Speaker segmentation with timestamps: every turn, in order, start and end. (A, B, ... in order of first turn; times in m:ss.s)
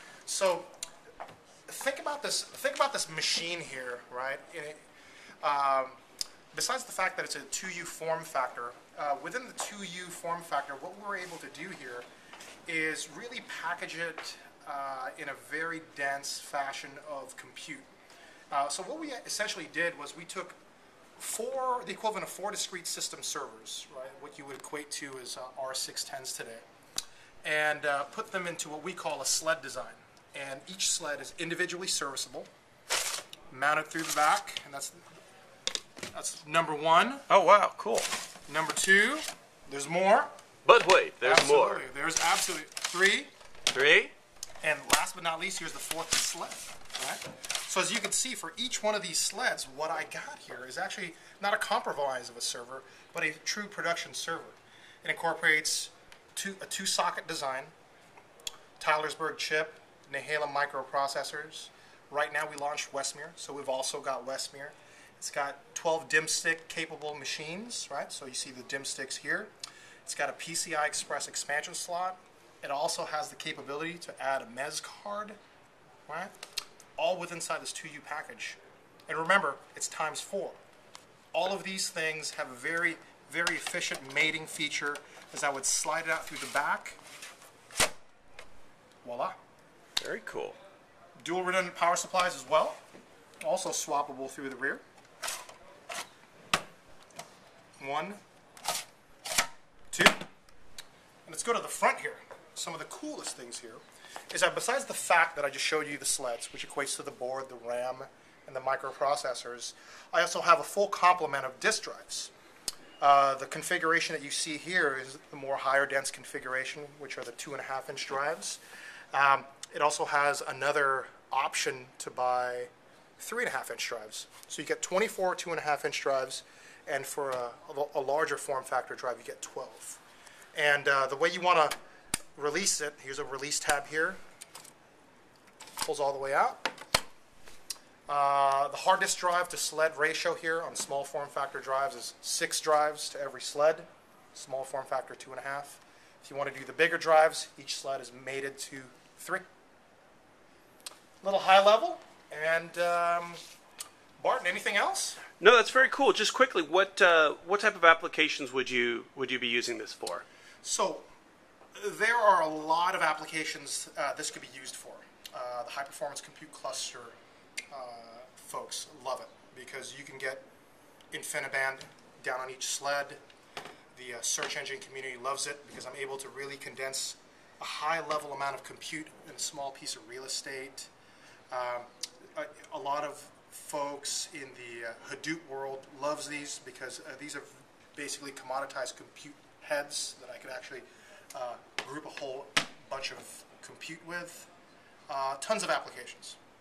0:00.3-0:00.7 A
0:01.7-0:04.8 A
0:05.4-0:06.0 A
0:06.5-0:12.1 A
0:12.7-0:17.9 A
0:18.5-0:20.6 A
0:21.2-0:26.6 A
0:27.4-0:32.5 A
0:33.5-0:35.0 A
0:36.1-0:37.3 A
0:37.3-0:38.1 B
0:38.5-0:40.3 A
0:40.6-0:41.8 B
0:41.2-0:43.3 A
0:43.7-0:44.1 B
0:44.6-0:57.7 A
0:58.8-1:09.5 A
1:10.0-1:15.4 A
1:16.1-1:16.3 A
1:17.0-1:20.6 A
1:21.3-1:27.0 A
1:29.0-1:29.4 A
1:30.0-1:30.6 B
1:31.2-1:32.8 A
1:33.4-1:34.8 A
1:37.8-1:38.2 A
1:39.9-1:40.2 A
1:41.2-1:52.3 A
1:53.0-1:58.6 A
1:59.1-2:10.0 A
2:10.5-2:11.7 A
2:12.4-2:14.2 A
2:15.8-2:16.7 A
2:18.1-2:29.4 A
2:31.2-2:33.4 A
2:34.2-2:35.2 A
2:35.4-2:40.2 B
2:40.6-2:41.0 A
2:41.8-2:47.1 A
2:47.7-2:50.4 A
2:51.1-2:53.2 A
2:53.9-3:00.9 A
3:01.5-3:14.5 A
3:15.1-3:16.4 A